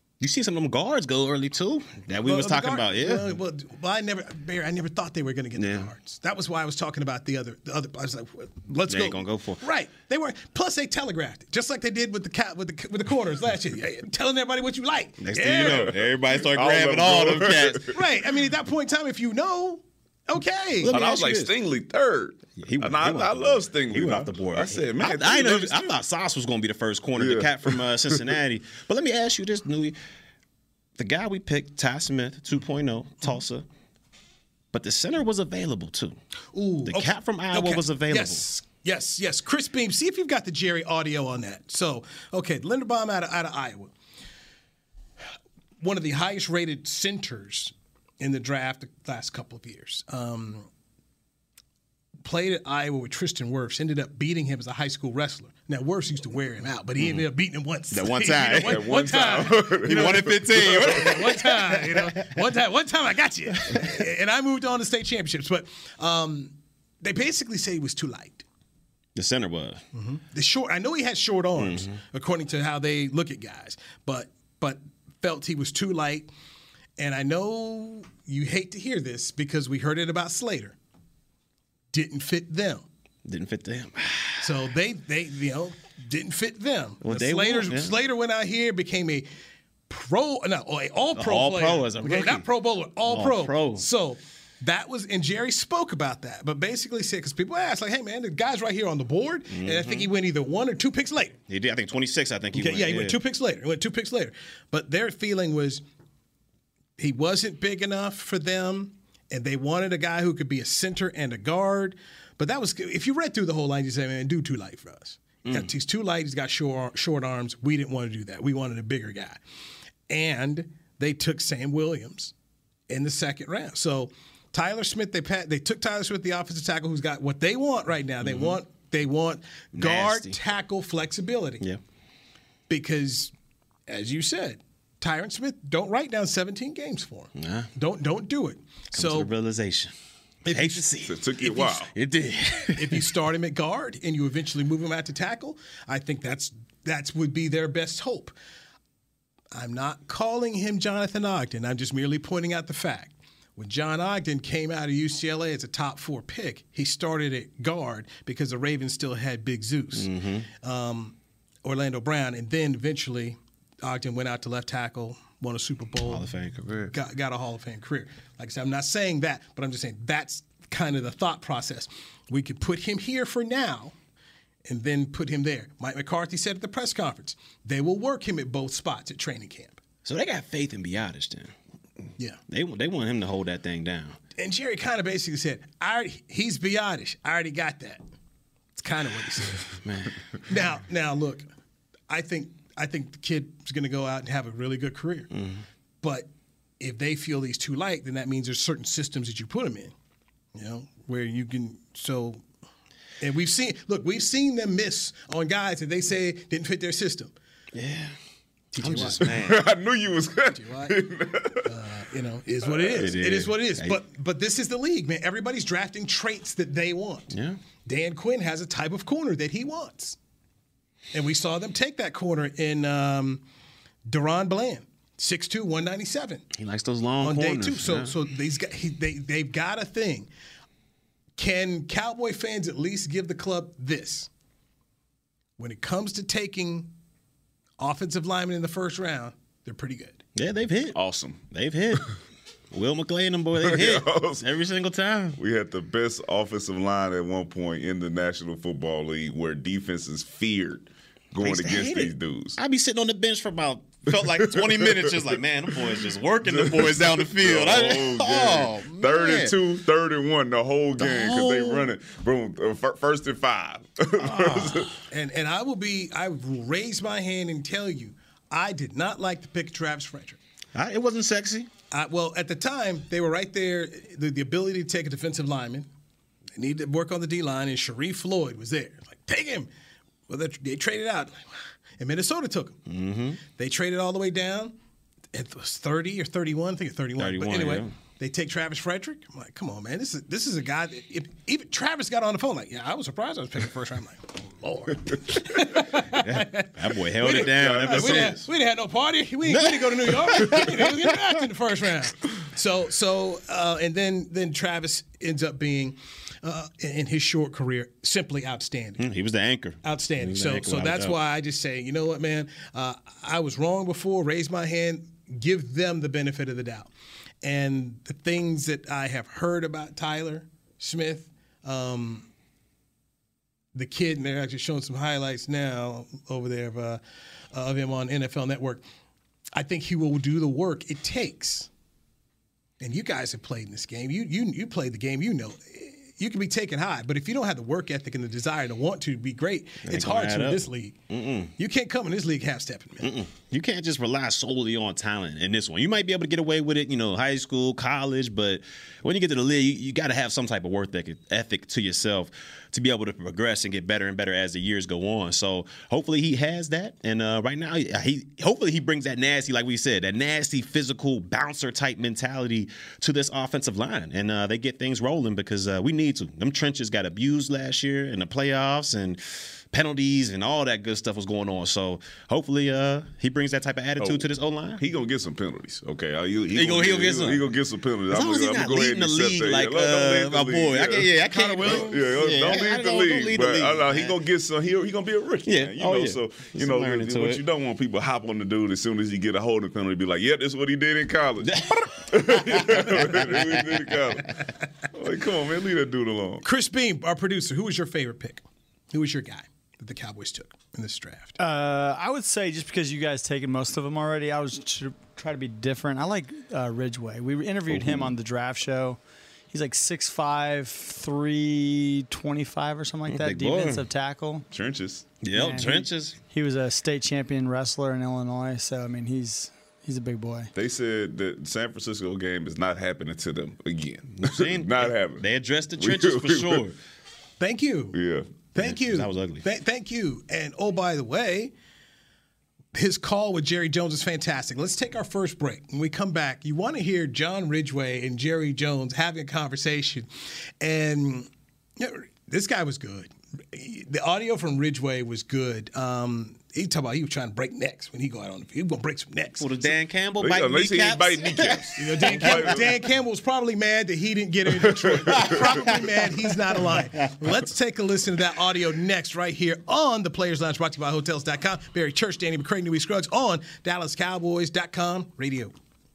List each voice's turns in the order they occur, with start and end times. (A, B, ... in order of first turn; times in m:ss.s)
0:00.2-0:03.3 A
0:02.2-0:15.9 B
0:05.6-0:05.9 A
0:08.9-0:09.6 A
0:15.2-0:17.9 A
0:15.6-0:17.9 C
0:17.9-0:20.9 B
0:20.8-0:21.5 A
0:20.9-0:25.9 C
0:22.6-0:30.0 A
0:27.2-0:28.4 C
0:31.0-0:33.6 A
0:34.7-0:36.2 A
0:36.5-0:43.9 B
0:36.8-0:38.5 A
0:45.8-0:50.7 B
0:52.2-1:08.4 B
0:57.0-0:57.2 A
0:57.9-0:58.8 A
0:58.6-1:01.2 C
0:59.8-1:02.3 A
1:09.2-1:09.8 A
1:09.9-1:16.3 B
1:11.6-1:12.0 A
1:17.0-1:20.8 B
1:21.9-1:22.8 B
1:23.2-1:24.5 A
1:24.4-1:29.3 B
1:27.0-1:28.0 A
1:29.9-1:41.4 B
1:31.2-1:32.5 A
1:33.0-1:33.8 A
1:39.5-1:40.1 A
1:41.5-1:43.2 A
1:42.5-1:45.8 B
1:47.0-1:59.4 B
2:00.1-2:02.3 B
2:02.9-2:11.6 B
2:08.2-2:08.6 A
2:09.8-2:10.4 A
2:12.7-2:13.3 B
2:13.9-2:19.3 B
2:17.4-2:17.7 A
2:18.9-2:19.9 A
2:20.4-2:20.8 B
2:20.5-2:23.0 A
2:21.0-2:21.9 C
2:22.7-2:28.3 B
2:29.5-2:46.3 B
2:39.9-2:40.5 A
2:46.1-2:46.9 A
2:46.9-2:53.9 B
2:54.6-2:59.8 B
3:00.0-3:01.5 A
3:02.5-3:04.2 A
3:04.4-3:08.0 B
3:08.7-3:09.6 B
3:09.8-3:10.2 A
3:10.5-3:11.4 B
3:12.1-3:15.3 B
3:15.3-3:15.6 A
3:16.0-3:16.3 B
3:16.8-3:19.9 B
3:20.5-3:22.4 B
3:23.2-3:27.3 B
3:27.7-3:28.1 A
3:28.7-3:29.3 B
3:28.8-3:29.6 A
3:29.2-3:31.7 C
3:30.5-3:31.0 B
3:31.6-3:37.3 B
3:32.7-3:32.9 C
3:33.0-3:34.0 A
3:37.3-3:37.6 A
3:37.8-3:40.2 B
3:41.1-3:43.4 B
3:44.1-3:46.4 B
3:46.6-3:48.1 A
3:47.2-3:50.3 B
3:51.4-3:54.3 B
3:55.6-3:56.9 B
3:57.8-4:00.2 B
4:00.4-4:01.0 A
4:00.9-4:01.4 C
4:01.5-4:02.1 A
4:02.7-4:05.4 A
4:03.6-4:04.4 C
4:05.4-4:12.6 C
4:11.4-4:19.5 A
4:14.1-4:24.9 C
4:21.0-4:21.9 A
4:24.2-4:30.4 B
4:30.7-4:31.7 A
4:31.9-4:35.9 B
4:36.6-4:39.7 B
4:40.3-4:41.4 B
4:42.0-4:42.8 B
4:42.9-4:43.4 A
4:43.5-4:44.7 B
4:45.3-5:09.0 B
4:47.2-4:47.9 A
4:56.1-4:58.5 A
4:57.3-4:58.3 C
4:59.4-5:01.3 A
5:09.0-5:11.2 A
5:09.8-5:16.9 B
5:17.4-5:22.3 B
5:23.7-5:27.0 B
5:27.5-5:28.8 B
5:29.5-5:31.7 B
5:32.8-5:41.0 B
5:39.8-5:41.5 A
5:41.6-5:43.1 B
5:43.0-6:09.2 A
6:09.7-6:14.8 A
6:14.0-6:14.3 C
6:14.8-6:34.3 C
6:16.5-6:17.4 A
6:18.1-6:24.1 A
6:21.3-6:22.0 B
6:25.4-6:27.4 A
6:31.4-6:34.0 A
6:34.9-6:36.4 C
6:36.4-6:41.4 B
6:41.4-6:49.0 D
6:47.7-6:48.1 A
6:49.5-6:54.4 D
6:53.1-6:53.8 A
6:54.5-6:55.1 C
6:55.2-6:56.1 A
6:55.3-7:00.5 D
7:00.5-7:05.2 C
7:04.2-7:06.8 A
7:05.8-7:06.6 C
7:07.4-7:08.0 B
7:07.9-7:08.3 C
7:08.5-7:11.5 B
7:08.6-7:09.4 A
7:12.7-7:20.1 B
7:20.6-7:29.5 B
7:29.4-7:32.6 A
7:30.2-7:32.7 C
7:31.8-7:45.5 B
7:34.6-7:35.7 C
7:35.2-7:35.7 A